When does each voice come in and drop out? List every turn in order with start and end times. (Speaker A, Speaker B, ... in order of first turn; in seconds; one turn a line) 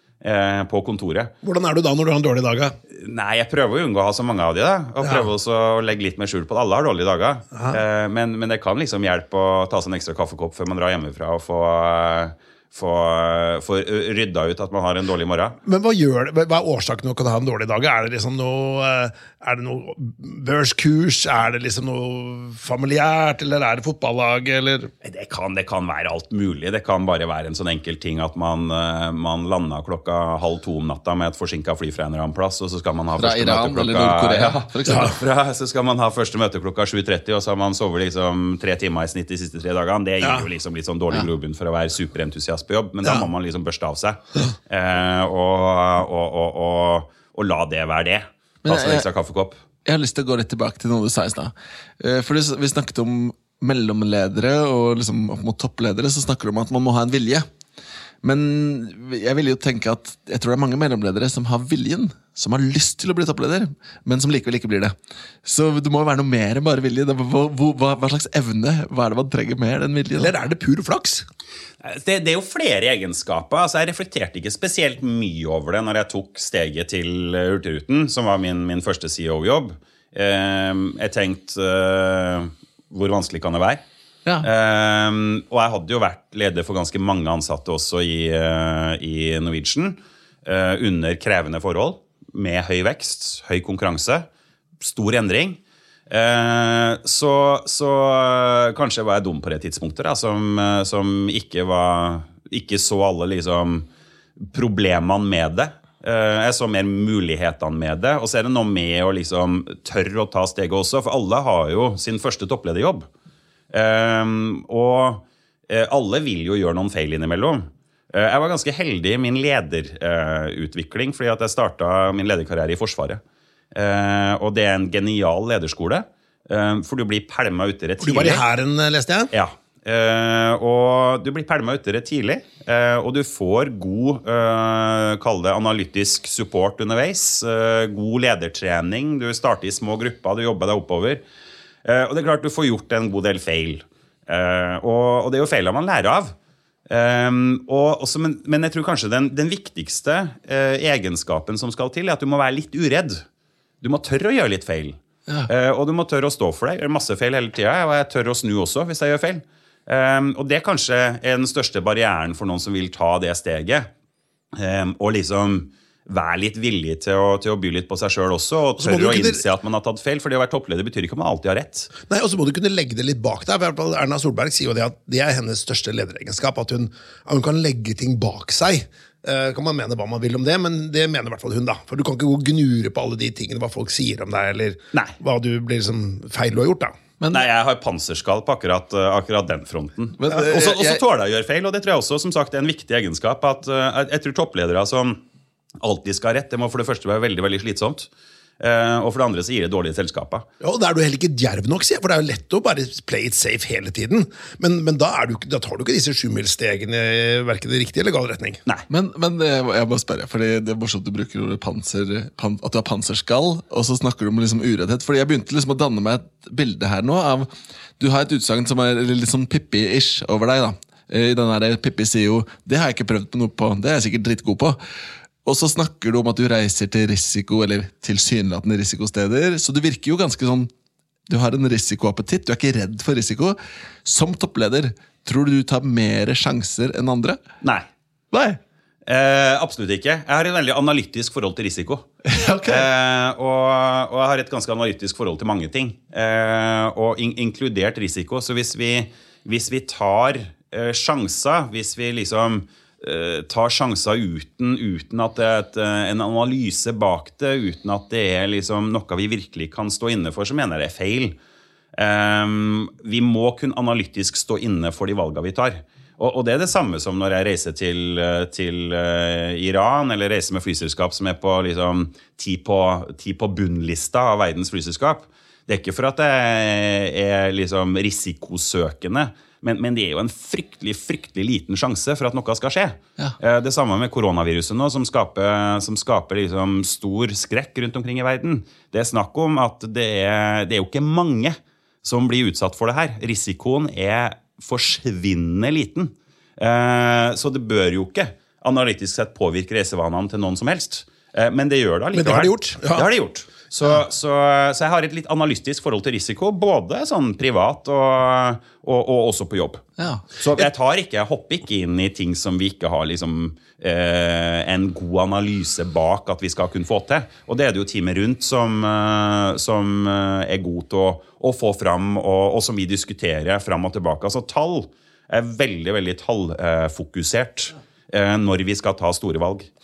Speaker A: 0.2-1.3
Speaker B: 1.4-2.8
Speaker A: 2.9-15.6
Speaker B: 5.0-5.3
Speaker B: 7.5-7.8
Speaker B: 15.6-24.9
Speaker A: 25.0-49.6
Speaker C: 33.2-35.2
Speaker B: 34.9-35.1
Speaker B: 40.2-40.5
Speaker C: 48.6-49.1
Speaker C: 49.8-57.5
Speaker C: 58.2-64.9
Speaker C: 65.4-70.3
Speaker B: 70.2-71.2
Speaker A: 71.8-83.8
Speaker A: 84.4-94.3
Speaker A: 94.8-103.9
Speaker A: 104.4-113.1
Speaker A: 113.7-123.2
Speaker A: 123.7-128.4
Speaker B: 128.0-129.3
Speaker A: 129.3-141.2
Speaker A: 141.8-146.3
Speaker A: 146.9-153.2
Speaker A: 153.8-163.9
Speaker A: 164.6-171.9
Speaker B: 168.8-169.4
Speaker B: 172.1-186.9
Speaker C: 187.2-187.4
Speaker A: 187.3-195.2
Speaker C: 190.2-191.0
Speaker A: 195.8-198.1
Speaker A: 198.6-200.4
Speaker B: 200.6-208.6
Speaker C: 208.9-224.8
Speaker C: 225.4-230.7
Speaker C: 231.3-237.4
Speaker C: 238.3-238.6
Speaker A: 239.1-242.1
Speaker C: 242.2-242.9
Speaker A: 242.7-261.4
Speaker A: 261.9-309.8
Speaker B: 302.1-303.1
Speaker C: 310.0-310.2
Speaker A: 310.4-329.7